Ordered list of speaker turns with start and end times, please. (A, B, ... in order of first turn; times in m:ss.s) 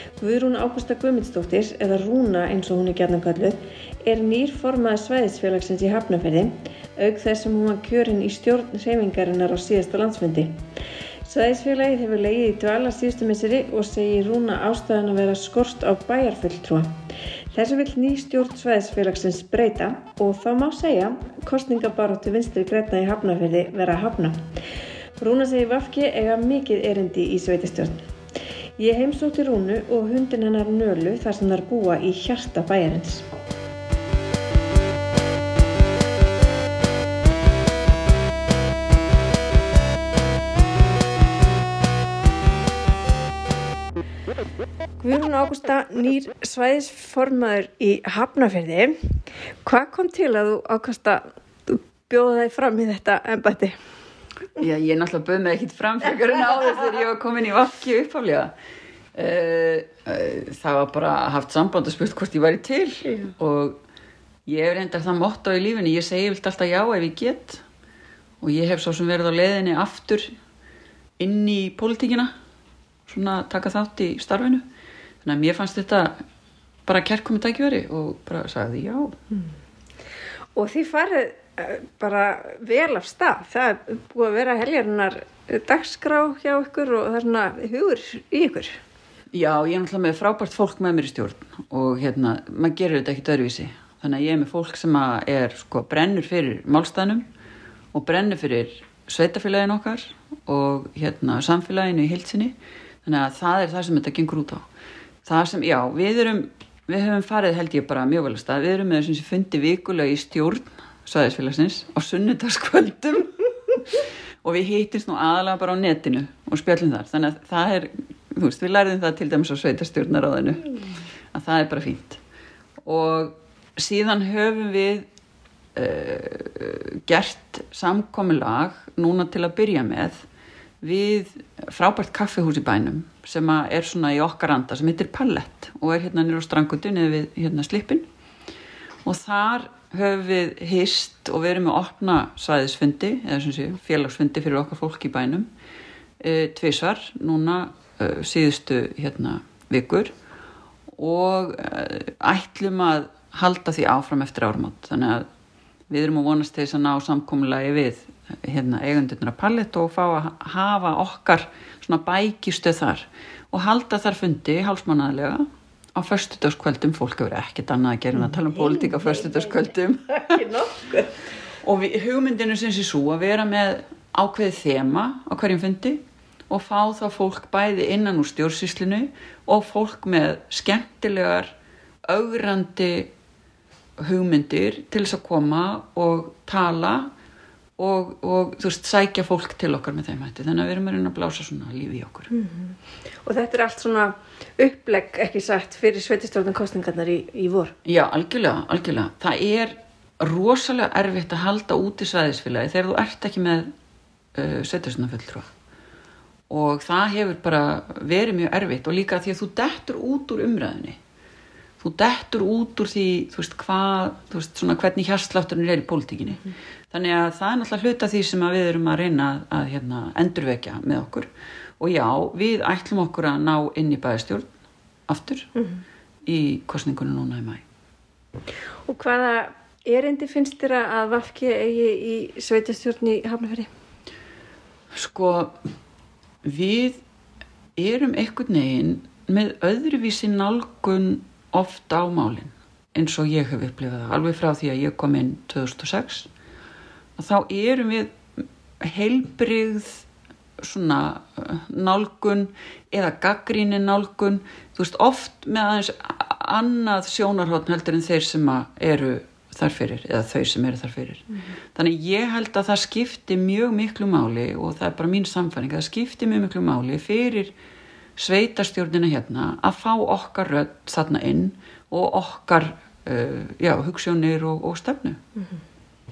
0:00.2-0:10.5 A
0:11.3-0:17.0 A
0:17.5-0:24.4 A
0:25.2-0:28.0 A
0:28.8-0:33.3 A
0:45.0-0:49.0 A
0:49.6-0:53.8 A
0:54.6-0:58.5 B
0:59.1-1:03.8 B
1:04.5-1:07.6 B
1:08.4-1:10.3 B
1:11.2-1:12.3 B
1:13.1-1:14.6 B
1:15.2-1:16.2 B
1:16.9-1:19.2 B
1:20.6-1:28.8 A
1:29.3-1:37.2 B
1:37.9-1:44.6 B
1:45.2-1:53.8 B
1:54.4-2:00.7 B
2:01.3-2:02.2 B
2:02.8-2:05.1 B
2:05.8-2:10.2 B
2:10.8-2:18.1 B
2:19.1-2:25.5 B
2:26.2-2:30.1 B
2:31.0-2:35.3 B
2:35.9-2:45.4 B
2:46.0-2:50.4 B
2:48.5-2:51.1 A
2:51.6-2:56.0 B
2:56.5-3:01.5 B
3:02.1-3:03.1 B
3:04.0-3:07.1 B
3:07.8-3:12.3 B
3:12.3-3:17.8 A
3:17.8-3:23.7 B
3:24.4-3:25.5 B
3:26.5-3:31.0 B
3:31.8-3:41.3 B
3:41.8-3:44.5 B
3:45.1-3:45.5 B
3:45.6-3:45.8 A
3:46.3-3:47.6 B
3:48.9-3:53.7 A
3:54.9-3:55.6 B
3:56.4-3:57.0 B
3:57.8-4:06.3 B
4:07.2-4:10.0 B
4:10.6-4:27.5 B
4:28.2-4:35.2 B